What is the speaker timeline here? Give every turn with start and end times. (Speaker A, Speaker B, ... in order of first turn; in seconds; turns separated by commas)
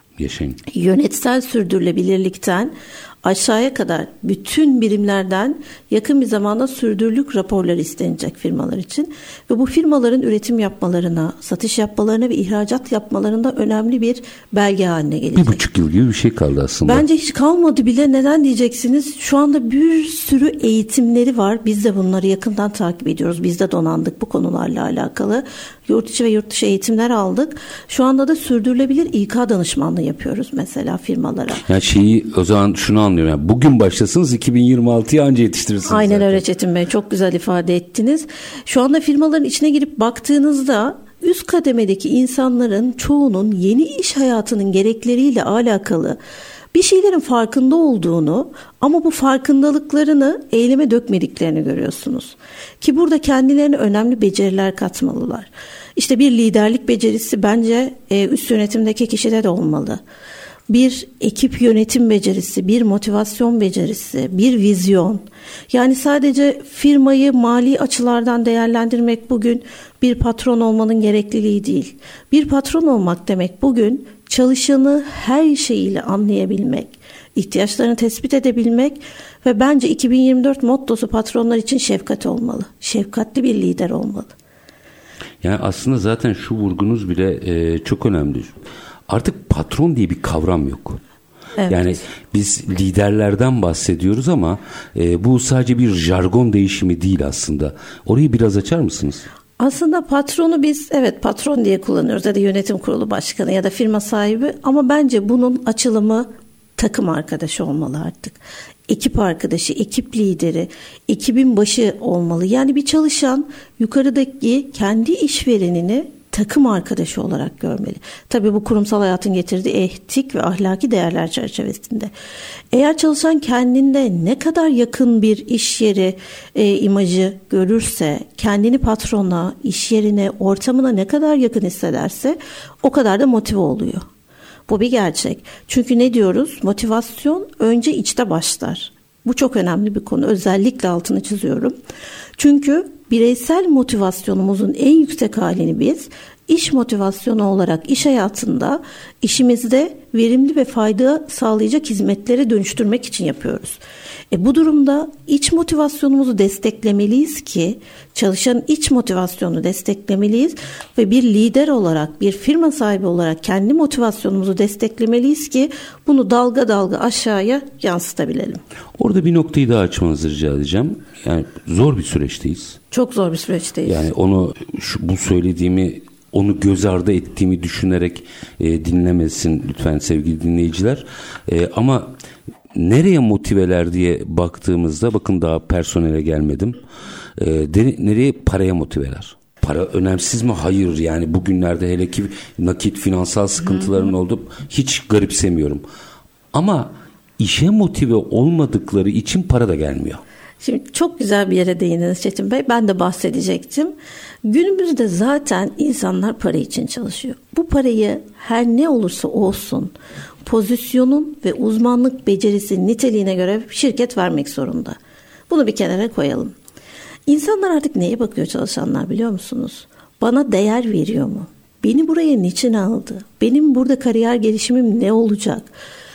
Speaker A: 0.2-0.6, Speaker B: 0.7-15.6, Speaker A: 15.3-17.0, Speaker B: 16.8-31.6, Speaker A: 31.6-36.4, Speaker B: 35.9-46.2, Speaker B: 46.7-60.0, Speaker B: 60.7-84.3, Speaker A: 85.4-88.5, Speaker A: 89.1-91.0, Speaker B: 91.6-92.0, Speaker A: 91.7-99.2, Speaker B: 99.6-122.1, Speaker B: 122.7-134.1, Speaker B: 134.7-141.7, Speaker B: 142.4-153.8, Speaker B: 154.3-168.6, Speaker A: 169.0-172.8, Speaker B: 172.9-174.1, Speaker A: 173.8-182.1, Speaker A: 182.7-186.8, Speaker A: 187.4-195.8, Speaker A: 196.5-200.2, Speaker B: 200.6-203.9, Speaker B: 204.4-209.9, Speaker B: 210.4-215.0, Speaker B: 215.5-216.5, Speaker B: 217.3-225.7